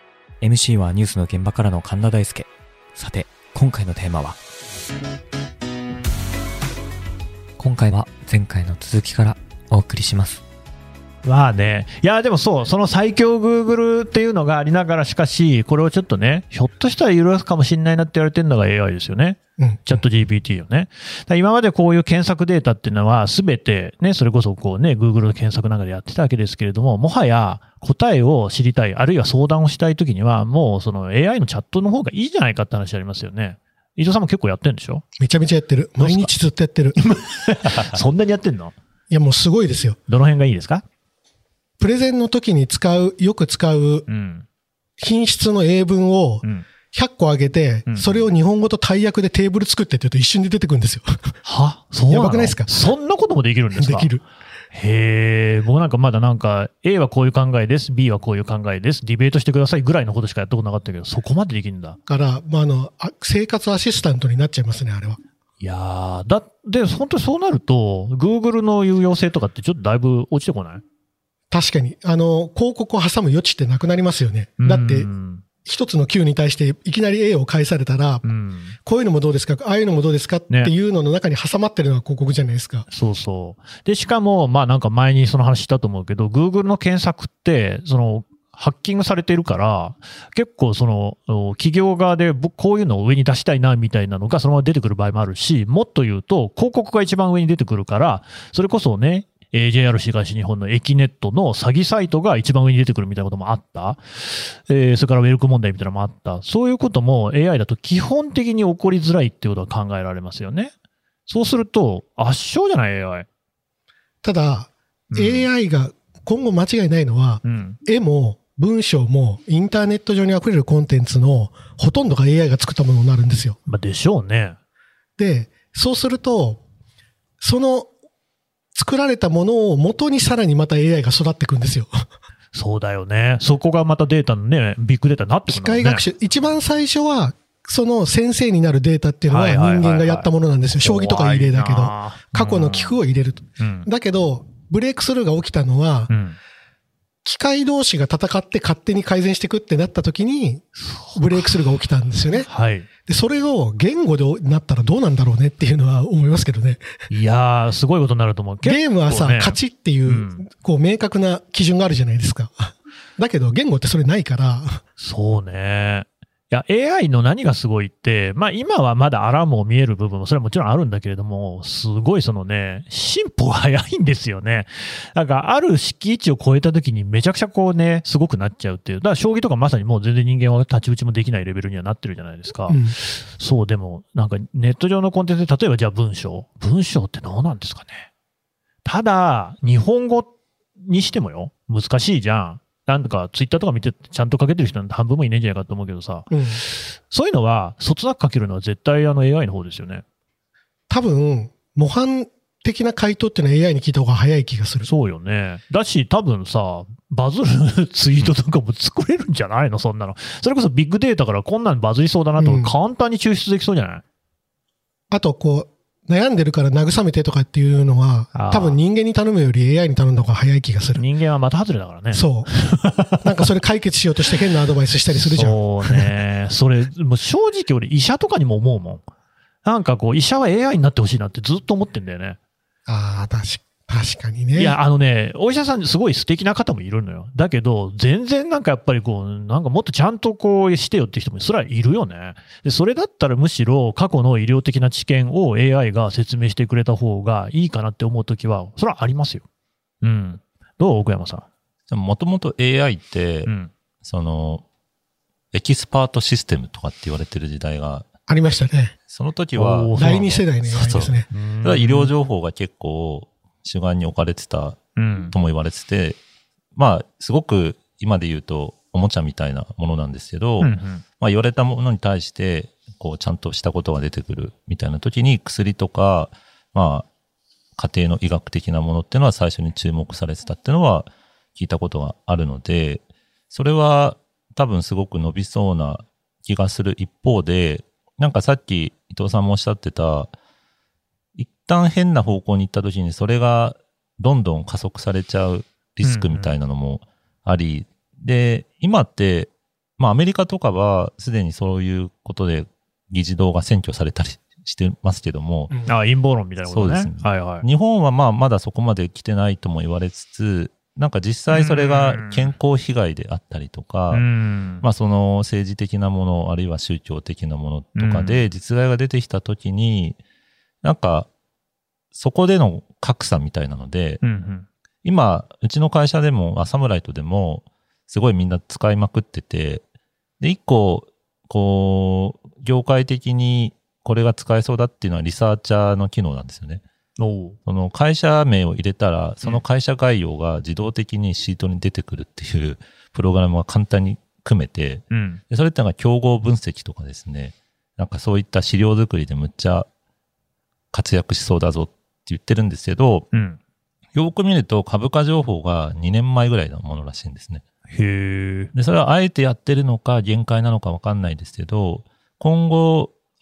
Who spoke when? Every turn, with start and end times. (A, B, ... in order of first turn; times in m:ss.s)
0:00.4-0:04.4 A
0:07.6-0:10.4 A
0:11.2-0:35.0 B
0:19.6-0:20.0 C
0:35.2-0:37.0 C
0:36.0-0:36.3 B
0:37.0-0:38.7 B
0:39.1-0:40.0 C
0:40.1-0:40.8 B
0:41.8-0:44.1 C
0:44.1-0:44.4 B
0:45.0-0:51.3 C
0:47.9-0:48.2 B
0:51.4-0:54.1 B
0:52.1-0:52.7 C
0:53.7-0:54.2 C
0:54.7-1:02.0 B
1:02.1-1:05.2 C
1:05.6-1:10.8 B
1:11.5-1:15.1 C
1:14.6-1:15.4 B
1:15.6-1:18.2 C
1:18.2-1:18.8 B
1:18.8-1:22.9 C
1:22.9-1:50.7 B
1:51.3-1:53.3 B
1:54.2-2:03.6 C
1:55.1-1:55.5 B
1:57.4-1:57.8 B
2:03.7-2:04.6 B
2:05.2-2:06.6 C
2:07.4-2:07.9 C
2:08.7-2:11.9 C
2:12.5-2:16.0 B
2:15.5-2:26.1 C
2:19.3-2:23.0 B
2:23.6-2:23.9 B
2:26.1-2:26.4 B
2:27.2-2:32.5 C
2:30.8-2:31.7 B
2:32.4-2:32.9 B
2:33.0-2:36.8 C
2:37.1-2:40.4 B
2:38.6-2:44.8 C
2:45.0-3:08.1 B
3:02.7-3:03.0 C
3:08.8-3:20.0 B
3:16.3-3:16.6 C
3:20.9-3:24.9 C
3:24.8-3:34.0 B
3:32.4-3:32.7 C
3:35.1-3:41.0 C
3:38.3-3:38.8 B
3:41.0-3:43.5 B
3:42.1-3:42.5 C
3:43.2-3:46.1 C
3:45.1-3:49.0 B
3:49.6-3:52.4 B
3:52.9-3:54.8 C
3:54.6-4:09.4 B
4:10.0-4:11.5 B
4:11.9-4:13.5 D
4:13.4-4:13.7 B
4:14.0-4:14.6 D
4:15.5-4:18.0 D
4:18.3-4:18.9 C
4:19.1-4:20.0 D
4:19.5-4:22.1 B
4:19.9-4:21.3 C
4:20.7-4:24.8 D
4:25.0-4:25.3 B
4:25.3-4:26.2 D
4:26.8-4:37.1 D
4:30.6-4:31.0 B
4:37.8-4:50.3 D
4:51.4-5:05.7 D
4:56.0-4:56.5 B
5:05.8-5:07.6 B
5:06.6-5:14.2 D
5:11.5-5:12.5 B
5:14.1-5:14.8 B
5:14.8-5:20.2 D
5:18.0-5:18.4 B
5:20.8-5:21.3 D
5:22.1-5:24.2 D
5:24.2-5:24.7 B
5:25.0-5:29.8 D
5:30.4-5:36.8 D
5:37.2-5:37.6 B
5:37.6-5:49.9 D
5:45.1-5:45.4 B
5:50.9-5:53.3 D
5:53.3-5:53.6 B
5:54.1-5:57.6 D
5:57.9-5:58.7 B
5:58.7-6:03.1 D